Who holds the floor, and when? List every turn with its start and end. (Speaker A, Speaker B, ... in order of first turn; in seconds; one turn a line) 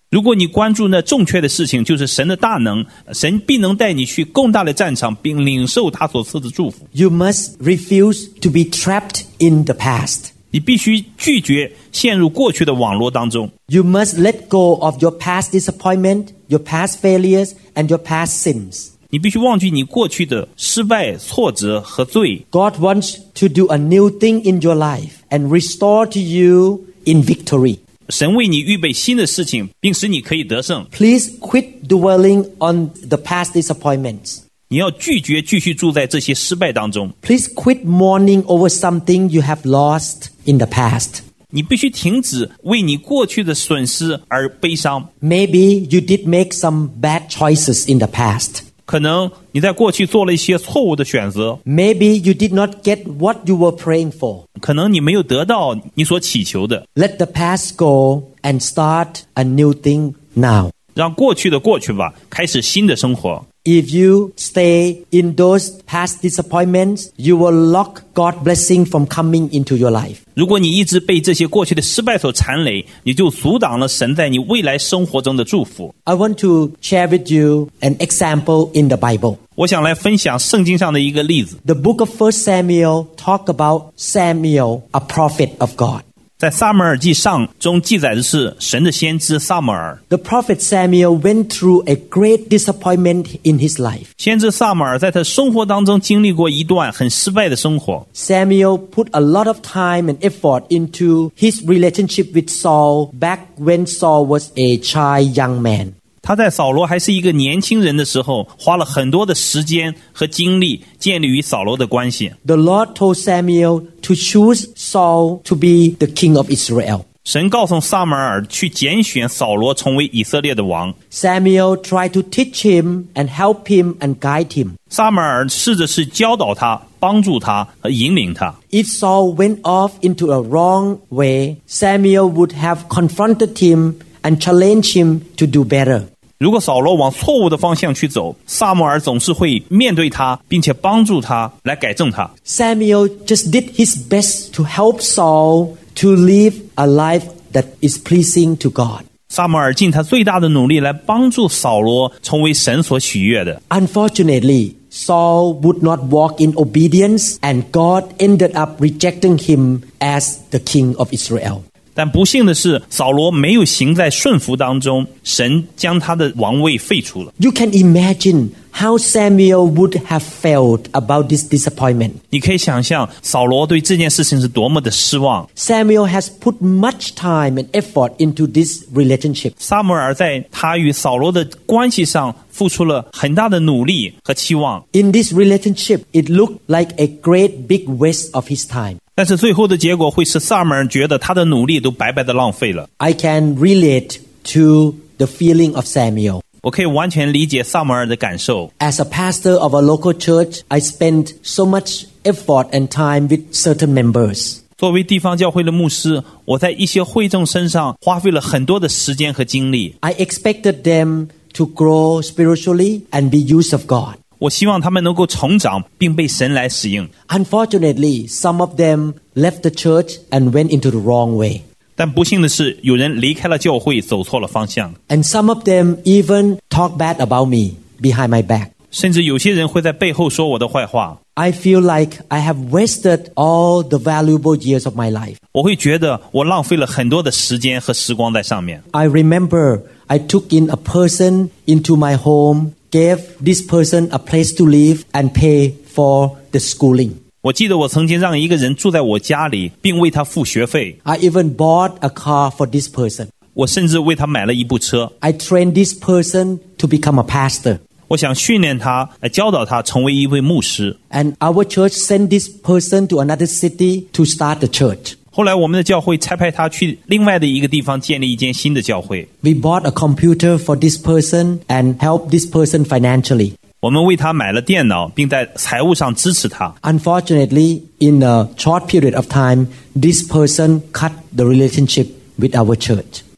Speaker A: 0.1-6.8
Speaker B: 6.9-10.3
Speaker A: 10.5-13.5
Speaker B: 13.7-18.9
Speaker A: 19.1-22.4
Speaker B: 22.5-27.8
Speaker A: 28.1-30.9
Speaker B: 30.9-34.4
Speaker A: 34.7-37.1
Speaker B: 37.2-41.2
Speaker A: 41.5-45.1
Speaker B: 45.2-48.6
Speaker A: 48.9-51.6
Speaker B: 51.6-54.4
Speaker A: 54.6-56.8
Speaker B: 57.0-60.7
Speaker A: 60.9-63.4
Speaker B: 63.6-70.2
Speaker A: 70.3-75.9
Speaker B: 76.0-79.4
Speaker A: 79.6-81.6
Speaker B: 81.6-86.0
Speaker A: 86.4-90.0
Speaker B: 90.1-94.1
Speaker A: 94.2-98.0
Speaker B: 98.1-105.9
Speaker A: 106.2-112.3
Speaker B: 112.4-117.0
Speaker A: 117.2-120.9
Speaker B: 121.1-124.8
Speaker A: 124.9-128.6
Speaker B: 128.7-136.1
Speaker A: 136.4-142.3
Speaker B: 142.4-149.0
Speaker A: 149.3-153.6
Speaker B: 153.7-161.6
Speaker A: 161.9-167.3
Speaker B: 167.4-172.2
Speaker A: 172.3-175.5
Speaker B: 175.6-179.5
Speaker A: 179.6-184.8
Speaker B: 184.9-189.0
Speaker A: 189.2-192.9
Speaker B: 193.0-196.4
Speaker A: 196.6-198.7
Speaker B: 198.8-204.6
Speaker A: 204.8-209.9
Speaker B: 210.0-214.2
Speaker A: 214.4-217.1
Speaker B: 217.3-221.6
Speaker A: 222.0-224.9
Speaker B: 225.1-228.7
Speaker A: 228.9-231.2
Speaker B: 231.3-235.4
Speaker A: 235.5-238.8
Speaker B: 238.9-247.2
Speaker A: 247.4-250.9
Speaker B: 251.0-253.3
Speaker A: 253.5-255.1
Speaker B: 255.2-257.8
Speaker A: 258.1-260.9
Speaker B: 261.1-265.1
Speaker A: 265.3-269.3
Speaker B: 269.4-273.5
Speaker A: 273.8-276.7
Speaker B: 276.8-283.2